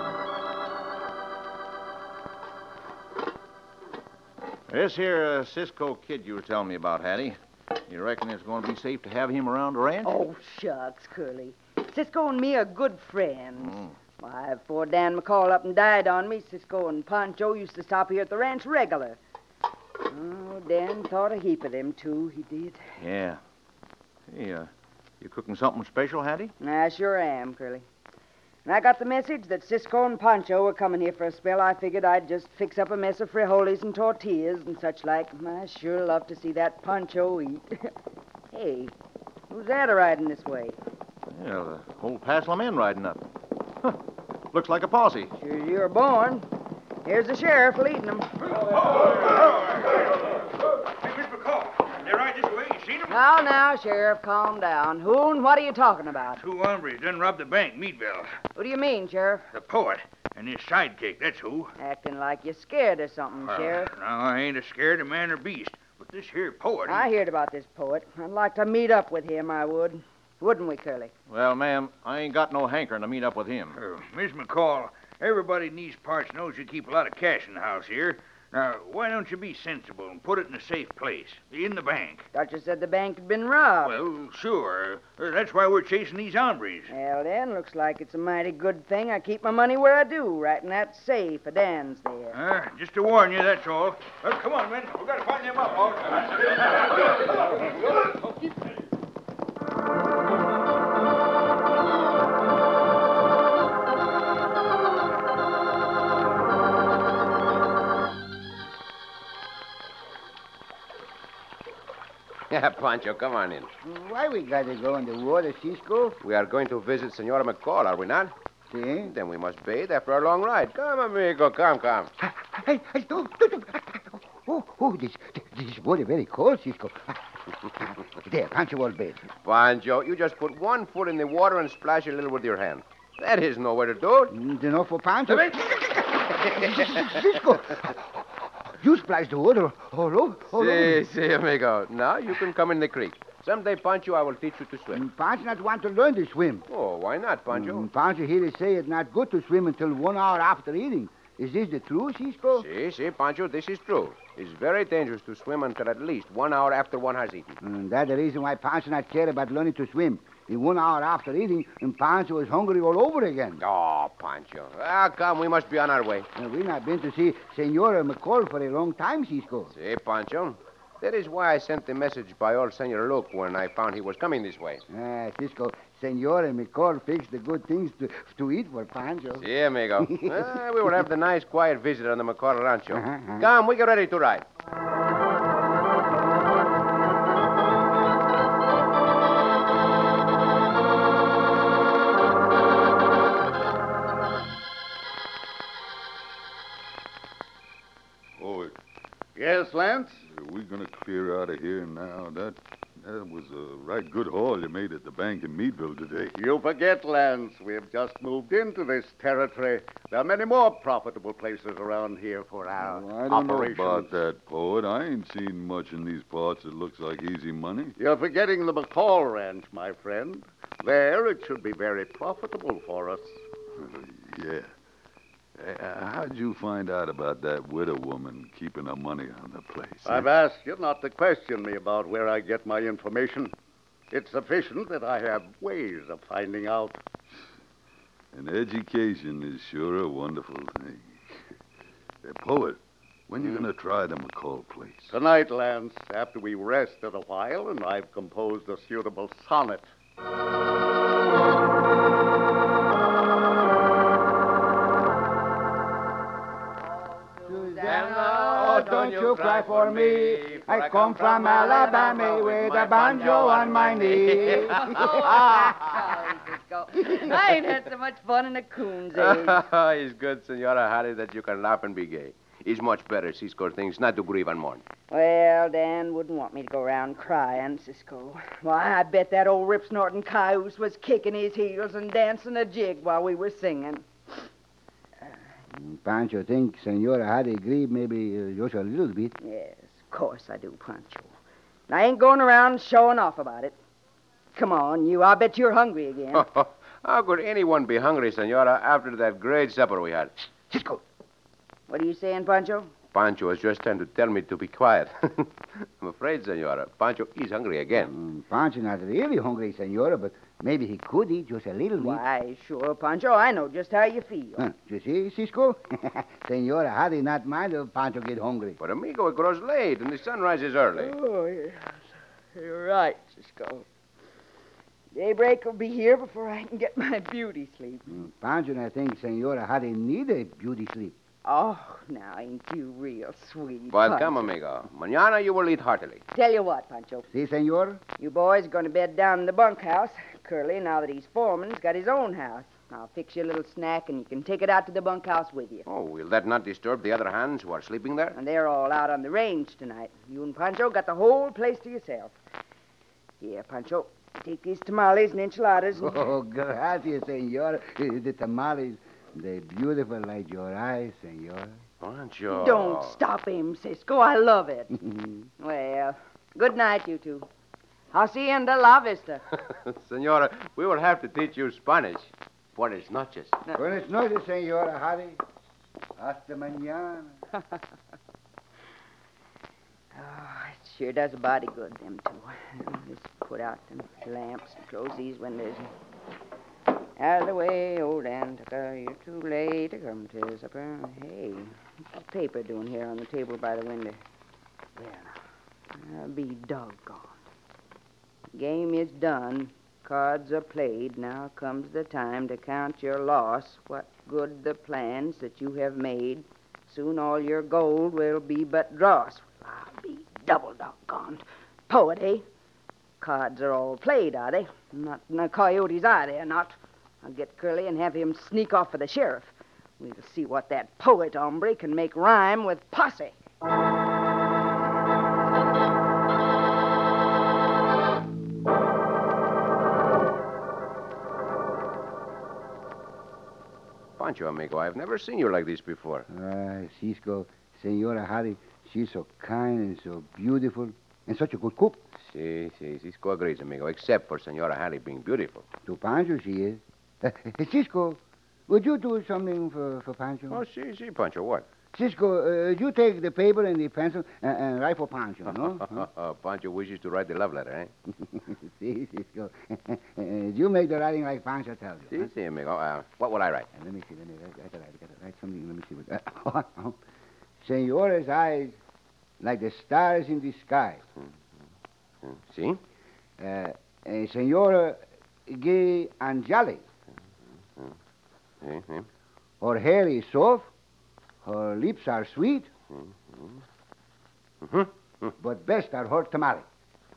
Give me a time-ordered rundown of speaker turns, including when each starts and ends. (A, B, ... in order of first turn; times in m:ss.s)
0:04.7-0:10.2 A
0:10.0-0:19.2 B
0:13.6-0:13.9 A
0:20.0-0:22.8 B
0:23.0-0:23.4 A
0:24.3-0:24.7 A
0:25.2-0:26.5 A
0:26.6-0:27.8 B
0:28.6-0:37.9 B
0:38.5-0:38.9 B
0:39.5-0:40.8 B
0:41.3-0:43.2 A
0:44.5-0:45.3 A
0:45.4-0:46.4 B
0:47.0-0:48.3 B
0:48.8-0:50.1 C
0:50.8-0:53.1 C
0:53.1-0:56.4 B
0:56.4-0:58.4 C
0:58.5-0:59.4 B
0:59.5-1:01.7 C
1:01.8-1:03.9 B
1:03.4-1:07.1 C
1:06.9-1:11.1 B
1:11.3-1:13.8 A
1:13.7-1:22.2 C
1:22.3-1:24.0 B
1:23.8-1:26.9 C
1:26.9-1:32.4 B
1:32.3-1:37.0 C
1:52.5-1:53.7 D
1:53.8-1:56.2 E
1:56.2-1:58.3 D
1:58.7-1:59.1 E
1:59.0-2:02.1 D
2:02.2-2:09.2 E
2:09.4-2:14.3 D
2:14.3-2:21.0 E
2:16.9-2:17.2 D
2:20.5-2:25.0 D
2:24.9-2:26.6 E
2:26.7-2:27.9 D
2:27.5-2:32.7 E
2:32.5-2:37.5 D
2:37.6-2:43.6 E
2:43.6-2:46.3 D
2:46.3-2:49.7 E
2:49.7-2:54.8 D
2:54.9-2:59.4 E
2:59.4-3:04.4 D
3:00.0-3:00.5 E
3:02.9-3:03.5 E
3:18.4-3:18.8 F
3:19.4-3:20.2 G
3:20.2-3:26.4 F
3:26.4-3:34.2 G
3:32.8-3:33.4 E
3:33.3-3:38.0 F
3:38.0-3:43.4 G
3:43.8-3:44.7 F
3:45.6-3:50.3 F
3:50.0-3:53.5 G
3:54.1-3:57.0 G
3:58.3-4:01.1 F
4:02.2-4:05.1 F
4:05.1-4:09.9 G
4:16.8-4:18.4 B
4:17.5-4:25.4 E
4:17.8-4:26.0 D
4:24.4-4:29.6 B
4:27.0-4:27.3 E
4:29.2-4:34.8 D
4:35.1-4:44.4 B
4:45.7-4:49.3 E
4:49.4-4:51.3 B
4:51.9-4:53.7 B
4:54.5-4:56.4 B
4:56.3-5:00.3 D
5:00.7-5:01.0 E
5:01.9-5:02.9 B
5:03.1-5:08.1 D
5:08.0-5:12.2 E
5:12.0-5:14.7 B
5:14.6-5:18.8 E
5:18.8-5:21.1 D
5:21.0-5:23.8 B
5:25.1-5:28.2 B
5:28.1-5:31.1 E
5:31.4-5:34.5 B
5:33.9-5:36.2 D
5:36.3-5:37.3 B
5:37.3-5:38.0 E
5:38.2-5:45.8 B
5:45.8-5:48.4 D
5:48.3-5:52.4 B
5:53.4-5:56.2 B
5:56.0-6:01.8 E
6:02.0-6:03.2 D
6:02.5-6:05.0 B
6:05.6-6:07.5 B
6:08.1-6:09.4 B
6:09.6-6:13.6 D
6:13.7-6:15.4 E
6:16.2-6:17.3 E
6:20.1-6:25.9 B
6:27.2-6:34.2 B
6:35.0-6:35.3 B
6:35.9-6:37.3 B
6:38.5-6:52.4 B
6:53.2-7:03.3 B
7:14.2-7:16.2 D
7:16.3-7:22.0 E
7:22.2-7:25.6 D
7:25.8-7:30.6 E
7:30.5-7:31.6 D
7:31.9-7:36.1 E
7:35.7-7:37.9 D
7:38.3-7:42.3 E
7:42.1-7:43.7 D
7:43.7-7:47.0 E
7:47.6-7:48.8 E
7:49.4-7:51.0 E
7:52.2-7:52.8 D
7:53.4-7:56.8 E
7:58.6-7:59.1 D
7:59.6-8:00.7 E
8:01.4-8:02.7 E
8:02.9-8:03.6 D
8:04.6-8:05.3 D
8:05.4-8:06.6 E